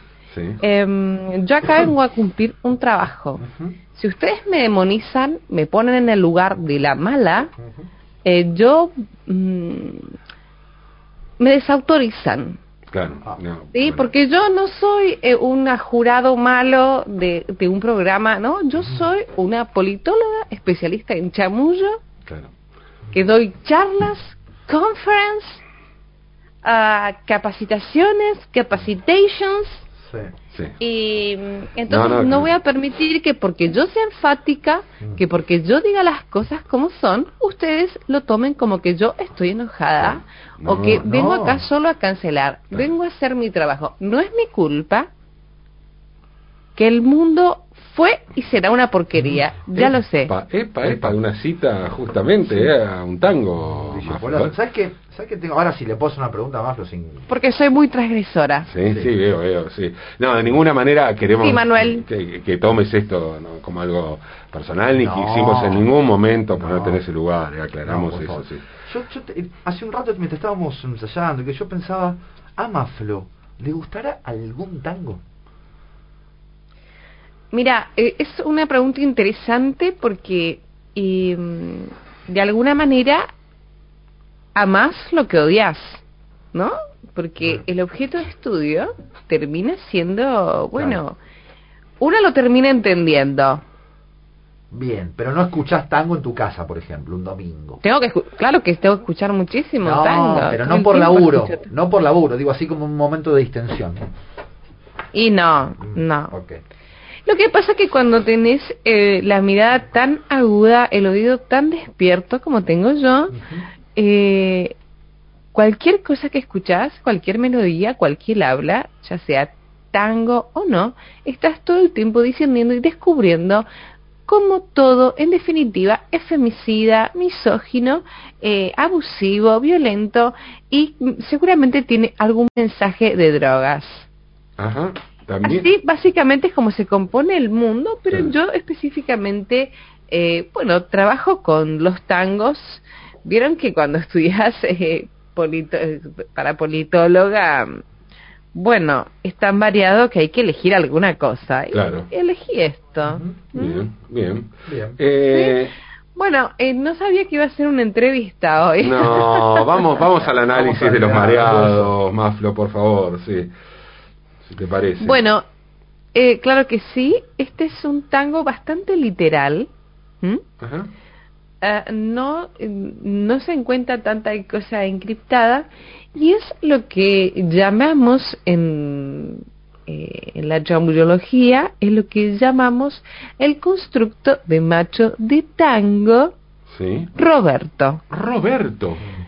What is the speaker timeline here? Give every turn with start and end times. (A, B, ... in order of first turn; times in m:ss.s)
0:00.3-0:00.6 A
0:00.6-0:07.5 B
0:03.4-0:03.7 C
0:08.2-0:10.1 B
0:11.4-0:12.6 B
0:12.9-0:14.1 A
0:13.7-0:22.0 B
0:22.2-0:22.5 A
0:23.1-0:25.6 B
0:26.6-0:29.8 B
0:30.0-0:30.3 C
0:30.8-0:45.1 B
0:31.9-0:32.5 A
0:40.0-0:41.1 A
0:41.0-0:41.6 C
0:46.8-0:50.3 B
0:49.7-0:54.5 A
0:50.8-0:51.1 C
0:53.8-0:57.3 C
0:57.3-0:58.7 B
0:58.6-1:08.7 A
1:01.4-1:02.0 B
1:05.0-1:05.9 C
1:06.6-1:07.0 C
1:07.8-1:15.2 C
1:17.5-1:23.2 B
1:24.5-1:26.0 B
1:26.5-1:31.2 B
1:30.7-1:31.0 C
1:32.0-1:33.6 B
1:34.7-1:37.8 C
1:37.8-1:41.6 B
1:39.8-1:44.0 C
1:45.1-1:46.3 B
1:45.8-1:46.6 C
1:47.2-1:53.4 B
1:53.3-1:53.7 C
1:53.9-1:54.8 B
1:55.5-2:03.6 B
2:04.3-2:14.1 B
2:14.6-2:15.7 A
2:15.4-2:27.8 B
2:28.5-2:33.8 B
2:31.7-2:32.1 A
2:33.0-2:33.3 C
2:33.6-2:35.7 A
2:34.6-2:35.0 C
2:35.3-2:35.6 B
2:36.1-2:39.8 B
2:38.8-2:43.5 A
2:40.5-2:41.9 C
2:44.4-2:45.2 A
2:45.0-2:45.4 B
2:46.1-2:49.7 B
2:50.6-2:50.9 A
2:51.6-3:06.3 B
3:06.7-3:07.1 A
3:07.1-3:08.0 B
3:08.1-3:09.0 A